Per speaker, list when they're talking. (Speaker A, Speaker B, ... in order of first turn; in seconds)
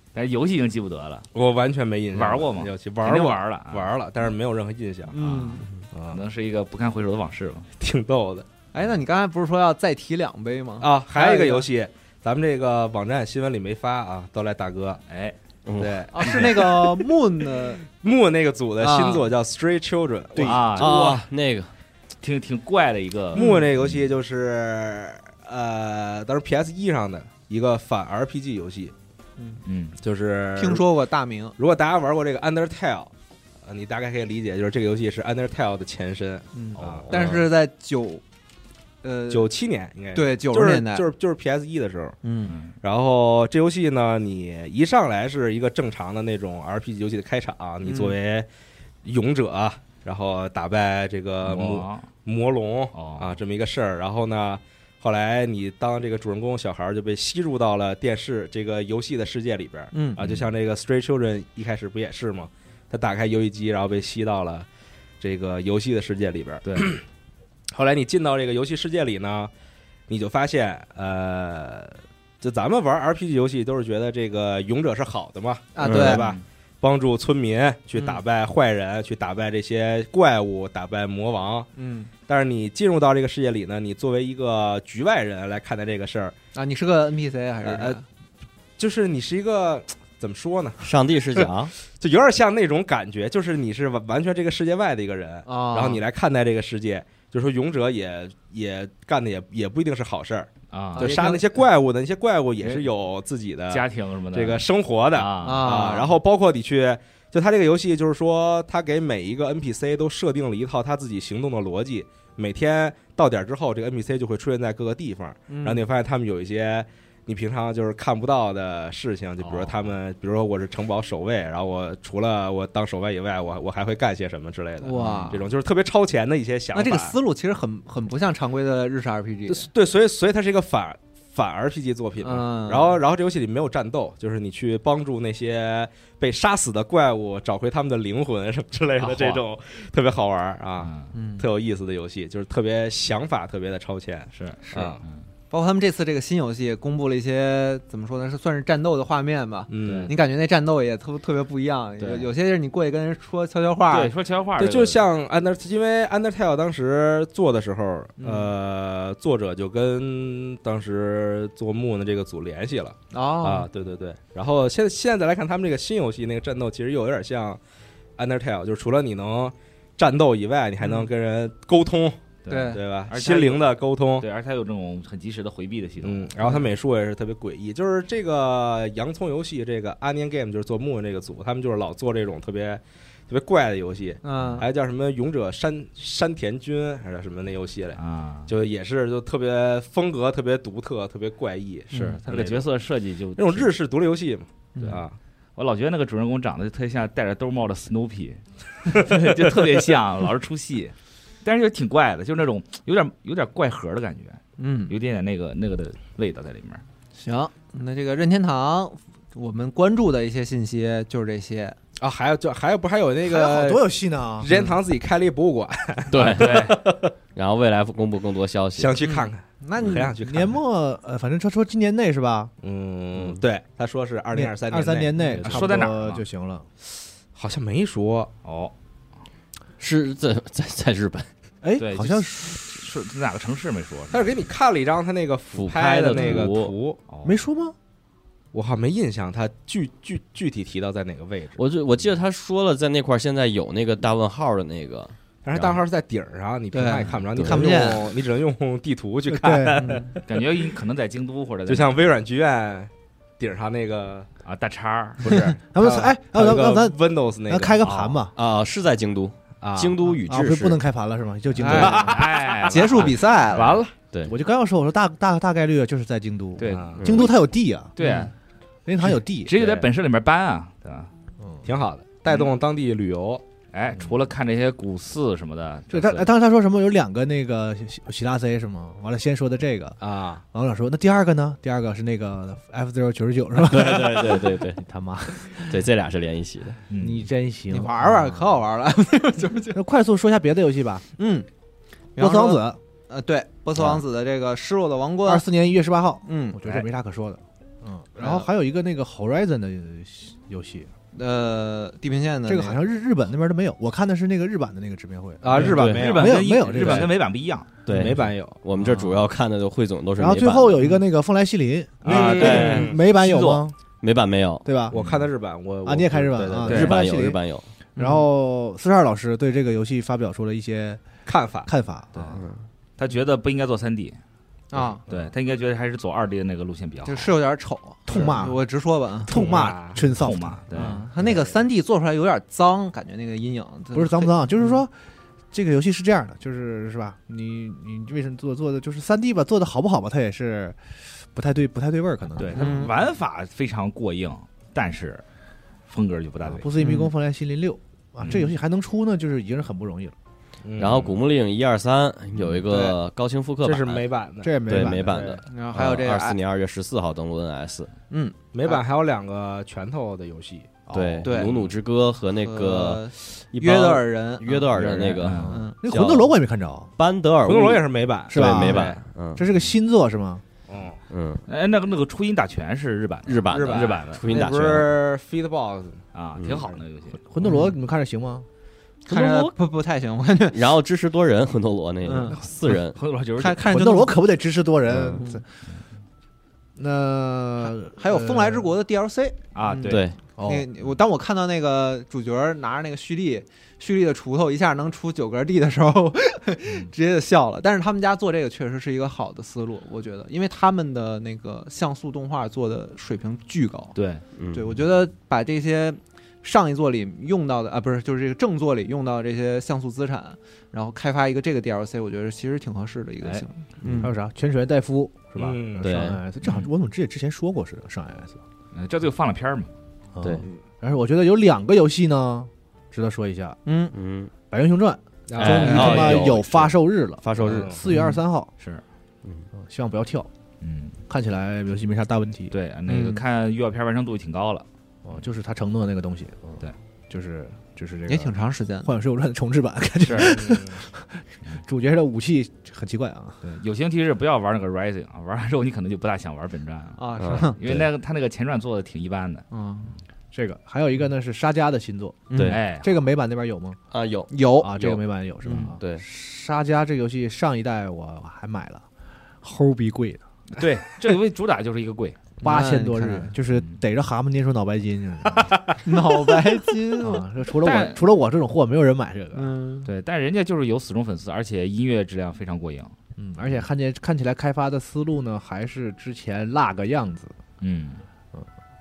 Speaker A: 0.1-1.3, 2.1-3.9, 5.2-7.7, 15.1-15.3, 20.4-21.2, 22.2-23.4, 29.6-29.9, 36.8-37.5, 42.5-42.7, 51.4-52.1, 52.9-53.4, 60.2-60.5, 76.0-76.4, 100.7-101.2, 102.6-102.9, 103.7-105.8, 119.4-119.9, 125.0-125.3, 139.0-139.4, 140.8-141.1, 144.3-145.2, 149.8-150.1, 152.0-152.3, 153.9-155.0, 172.4-173.6, 174.2-176.3, 184.4-184.6, 187.9-188.5, 191.9-193.7, 195.6-206.8, 216.2-216.8, 225.2-226.2, 228.4-228.7, 231.8-234.3, 237.1-237.4, 245.5-245.8, 250.3-252.0, 254.4-255.6, 257.8-258.2, 261.7-263.9, 266.6-267.2, 268.0-268.3, 269.4-271.1, 273.7-276.3, 286.9-287.3, 305.6-307.8, 312.0-313.6, 316.6-317.0, 323.0-324.2, 325.1-327.3, 330.0-331.0, 342.4-345.2, 345.9-346.7, 365.2-365.5, 371.5-374.3, 376.1-377.2, 382.7-383.7, 389.5-390.1, 403.9-404.2, 416.4-416.7, 418.7-419.7, 430.6-430.9, 432.5-434.6, 440.1-440.4, 443.4-449.4, 452.4-452.9, 460.5-462.2, 467.6-468.0, 469.9-472.9, 477.6-478.0
Speaker B: 1.3-5.2, 5.9-6.2, 7.8-8.4, 10.8-15.0, 15.8-17.0, 17.9-21.2, 23.3-28.9, 30.0-30.9, 31.6-33.1, 33.6-37.4, 39.3-42.2, 42.8-48.5, 49.0-64.7, 65.2-67.0, 67.7-69.5, 70.1-81.7, 82.2-86.3, 87.6-88.0, 88.8-90.9, 91.4-127.2, 129.5-145.0, 149.7-150.2, 154.6-167.6, 168.2-174.3, 176.0-192.7, 193.3-195.2, 212.0-213.9, 214.4-217.0, 218.8-220.6, 222.6-225.7, 227.3-228.3, 234.1-237.0, 238.5-241.6, 245.4-250.7, 251.7-254.3, 255.8-257.8, 259.6-260.0, 261.6-263.8, 266.6-267.1, 269.6-269.9, 271.6-273.4, 280.0-280.4, 305.4-307.1, 307.9-308.6, 312.1-313.0, 314.9-316.8, 321.2-321.7, 329.3-330.0, 350.6-351.2, 353.6-355.4, 358.5-360.8, 367.4-369.0, 370.7-371.0, 373.5-376.0, 415.4-416.0, 425.3-426.3, 427.4-427.8, 440.1-440.8
Speaker C: 5.1-5.7, 8.7-11.7, 16.1-17.8, 18.8-19.3, 23.3-23.7, 30.6-31.6, 36.5-38.2, 39.0-39.5, 40.1-41.1, 42.2-42.5, 47.8-48.2, 59.9-60.2, 75.7-76.2, 77.9-78.2, 81.8-82.1, 86.5-88.0, 95.5-96.0, 101.0-101.5, 105.4-106.1, 115.5-115.8, 124.8-125.4, 126.7-129.7, 132.2-133.0, 141.1-141.4, 145.5-154.1, 158.2-158.5, 163.1-163.7, 170.8-171.1, 172.5-172.8, 184.2-184.7, 191.9-192.2, 194.8-195.0, 204.6-204.9, 207.2-211.8, 214.4-214.8, 219.0-220.1, 246.7-248.1, 249.8-250.1, 261.6-262.1, 262.7-263.8, 268.0-268.3, 287.7-289.8, 291.2-291.5, 292.1-295.4, 296.2-296.6, 298.2-298.4, 301.1-302.8, 312.4-312.9, 318.0-318.2, 324.7-325.0, 327.0-329.4, 330.7-334.8, 342.5-342.9, 346.8-347.1, 352.7-353.0, 355.5-356.4, 358.1-358.8, 361.2-361.6, 362.4-365.8, 377.4-377.7, 379.1-380.7, 382.0-382.4, 383.4-384.1, 387.9-403.9, 404.5-414.0, 423.6-423.9, 425.6-426.1, 427.9-428.2, 432.9-433.2, 438.1-438.9, 447.0-447.6, 449.5-449.9, 452.3-452.6, 454.3-454.7, 455.4-455.7, 462.4-463.3, 465.8-467.2, 469.3-469.9
Speaker D: 15.7-16.5, 20.7-21.7, 75.8-76.2, 90.8-91.7, 216.1-219.0, 229.8-231.3, 235.5-236.7, 241.6-245.1, 247.3-247.7, 258.4-260.8, 267.0-267.3, 283.6-284.8, 285.6-286.8, 293.8-294.0, 305.6-306.1, 307.9-310.7, 312.1-312.9, 314.0-315.0, 316.7-317.7, 322.4-322.6, 350.8-354.1, 354.6-357.9, 360.9-366.3, 367.0-369.4, 371.1-371.4, 373.3-375.0, 376.4-376.7, 379.1-379.5, 380.5-383.0, 384.9-385.2, 389.9-390.2, 404.4-404.8, 413.8-414.1, 415.8-416.2, 423.9-424.3, 425.4-427.7, 447.2-447.9, 452.3-452.6, 453.9-455.0
Speaker E: 20.3-20.6, 213.2-214.5, 220.2-222.5, 224.3-226.7, 231.6-232.6, 237.2-237.7, 249.3-249.8, 255.7-256.9, 257.5-258.3, 260.2-262.1, 264.2-267.9, 268.9-269.5, 271.4-271.6, 275.9-280.0, 280.5-285.9, 286.9-288.4, 289.7-291.0, 292.2-292.8, 295.2-300.9, 302.5-307.1, 310.2-313.8, 314.6-315.0, 315.8-317.4, 318.0-322.5, 328.1-328.6, 329.2-330.6, 333.9-334.9, 335.5-342.9, 346.4-350.1, 354.4-355.4, 360.9-361.3, 365.4-366.9, 368.3-370.4, 377.3-378.4, 383.6-385.4, 386.8-388.7, 390.4-390.6, 414.0-418.4, 420.1-423.6, 424.5-428.5, 429.5-430.3, 431.1-432.5, 435.0-443.4, 450.3-453.8, 454.6-458.8, 459.4-460.2, 462.4-465.6, 467.0-469.5, 473.2-477.3